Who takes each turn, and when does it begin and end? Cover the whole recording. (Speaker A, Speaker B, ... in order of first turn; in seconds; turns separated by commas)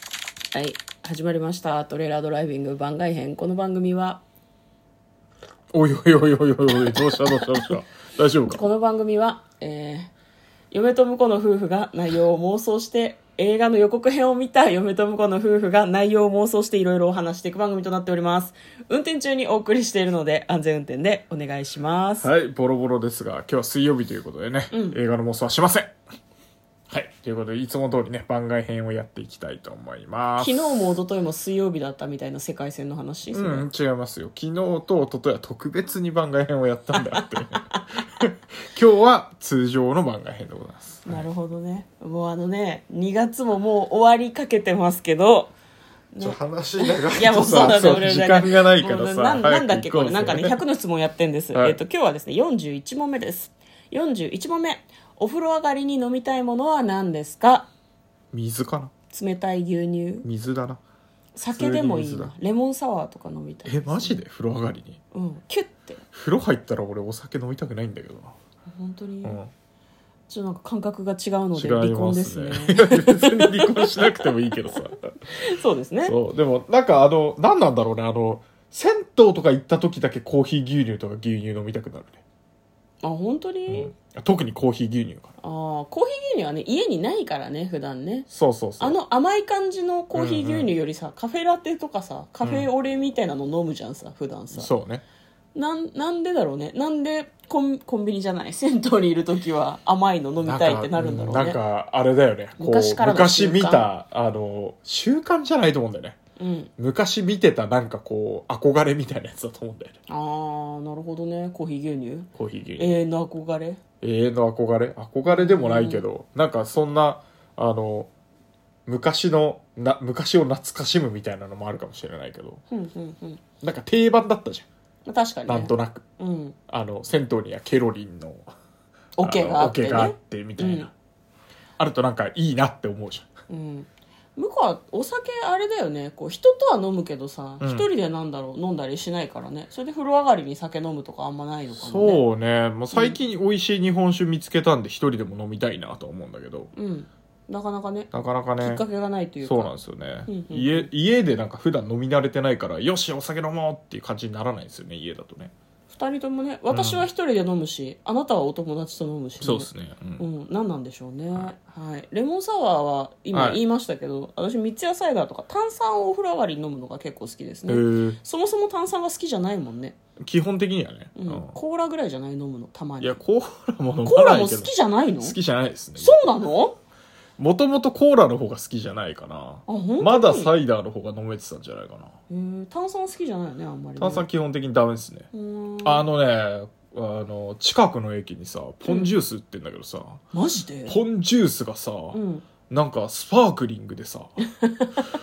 Speaker A: 0.5-4.2, Speaker B: 5.7-8.6, Speaker A: 8.5-10.1, Speaker A: 10.7-22.3, Speaker B: 22.2-25.9, Speaker A: 24.7-25.0, Speaker B: 26.9-30.9, Speaker A: 30.4-33.7, Speaker B: 33.3-41.3, Speaker A: 37.2-37.8, Speaker A: 41.0-45.5, Speaker A: 46.1-57.7, Speaker B: 46.2-50.6, Speaker B: 58.3-58.9, Speaker A: 59.1-60.3, Speaker B: 60.2-60.8, Speaker A: 61.3-64.2, Speaker B: 61.5-62.3, Speaker B: 63.7-65.0, Speaker A: 65.1-66.0, Speaker B: 66.1-68.3, Speaker A: 68.7-69.4, Speaker B: 69.2-69.5, Speaker A: 70.3-74.8, Speaker B: 71.5-75.1, Speaker A: 75.3-76.1, Speaker B: 76.0-82.2, Speaker A: 83.0-83.9, Speaker B: 83.7-85.3, Speaker A: 85.4-88.3, Speaker B: 88.3-89.0, Speaker A: 88.8-94.7, Speaker B: 90.1-90.7, Speaker B: 92.4-92.7, Speaker B: 94.5-95.0, Speaker A: 95.5-101.6, Speaker B: 100.4-106.2, Speaker A: 102.6-103.9, Speaker A: 106.4-106.7, Speaker B: 106.8-110.0, Speaker A: 110.1-113.8, Speaker B: 112.3-113.0, Speaker B: 114.0-118.1, Speaker A: 115.2-116.0, Speaker B: 118.9-122.6, Speaker A: 122.7-123.4, Speaker B: 123.6-124.7, Speaker A: 125.1-126.5, Speaker B: 125.5-126.0, Speaker B: 126.7-128.5, Speaker A: 129.2-130.9, Speaker B: 129.2-130.9, Speaker B: 131.8-133.3, Speaker A: 133.5-142.2, Speaker B: 137.6-137.9, Speaker B: 141.7-146.7, Speaker A: 142.9-143.2, Speaker A: 146.7-149.7, Speaker B: 148.1-148.8, Speaker B: 149.4-155.5, Speaker A: 150.3-150.9, Speaker A: 155.9-170.0, Speaker B: 156.7-157.1, Speaker B: 159.4-160.2, Speaker B: 163.3-163.6, Speaker B: 167.7-168.2, Speaker B: 170.2-171.6, Speaker A: 171.2-173.2, Speaker B: 173.0-176.4, Speaker A: 174.0-175.3, Speaker A: 176.0-176.8, Speaker B: 177.4-182.1, Speaker A: 179.7-180.5, Speaker A: 182.3-184.3, Speaker B: 184.0-185.3, Speaker A: 185.3-186.1, Speaker B: 185.8-190.2, Speaker A: 188.8-189.2, Speaker A: 190.3-191.0, Speaker B: 190.9-192.2, Speaker A: 192.1-192.4, Speaker B: 192.7-194.4, Speaker A: 194.6-195.0